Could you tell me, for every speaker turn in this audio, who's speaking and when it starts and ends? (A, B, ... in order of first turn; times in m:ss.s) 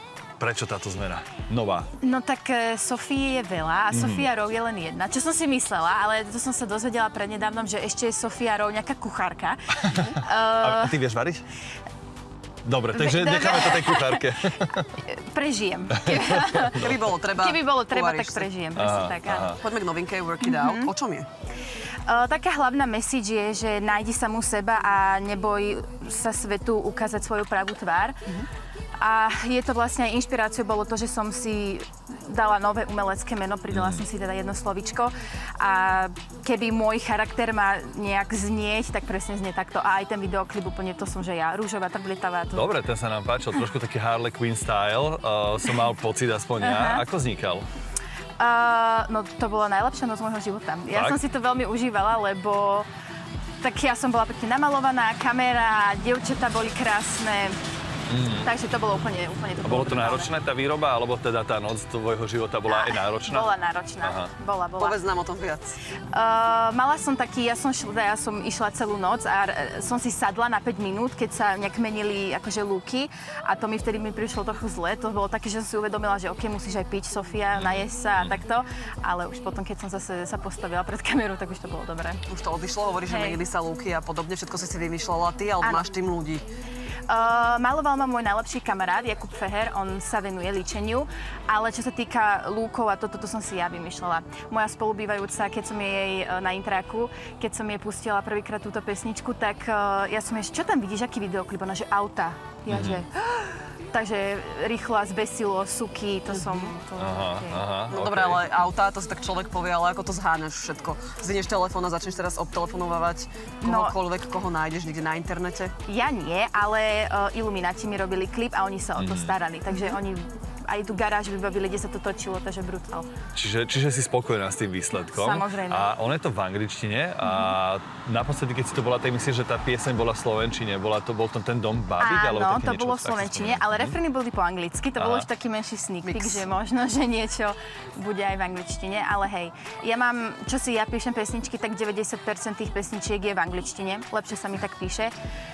0:00.4-0:01.9 A
0:02.0-0:11.0 B
0:03.9-0:04.3 A
0:09.8-0:11.4 A
0:12.6-0:15.0 A
0:12.9-0:14.3 B
0:15.0-0:16.8 B
0:15.9-0:16.9 A
0:16.8-0:18.5 C
0:17.4-0:19.5 B
0:18.7-0:19.6 A
0:19.5-0:21.3 C
0:20.4-0:20.9 B
0:22.1-0:28.3 B
0:29.0-0:42.7 B
0:33.7-0:34.0 A
0:42.5-0:47.6 A
0:46.6-0:47.0 B
0:48.4-0:52.9 B
0:50.9-0:51.2 A
0:53.6-0:57.6 B
0:58.1-0:58.5 A
0:58.4-1:00.3 B
0:59.6-1:03.5 A
1:02.7-1:05.0 B
1:04.0-1:04.3 A
1:04.8-1:05.8 C
1:06.1-1:22.2 B
1:17.5-1:18.4 A
1:22.3-1:26.4 C
1:23.1-1:23.4 B
1:25.6-1:25.9 B
1:27.1-1:47.7 B
1:42.7-1:43.0 A
1:46.4-1:46.7 C
1:47.0-1:48.5 A
1:47.8-1:55.8 C
1:53.6-1:54.0 B
1:55.8-2:03.1 B
1:59.0-1:59.4 A
2:03.3-2:14.0 A
2:05.1-2:05.9 B
2:12.0-2:25.1 B
2:15.0-2:15.3 A
2:16.0-2:16.4 C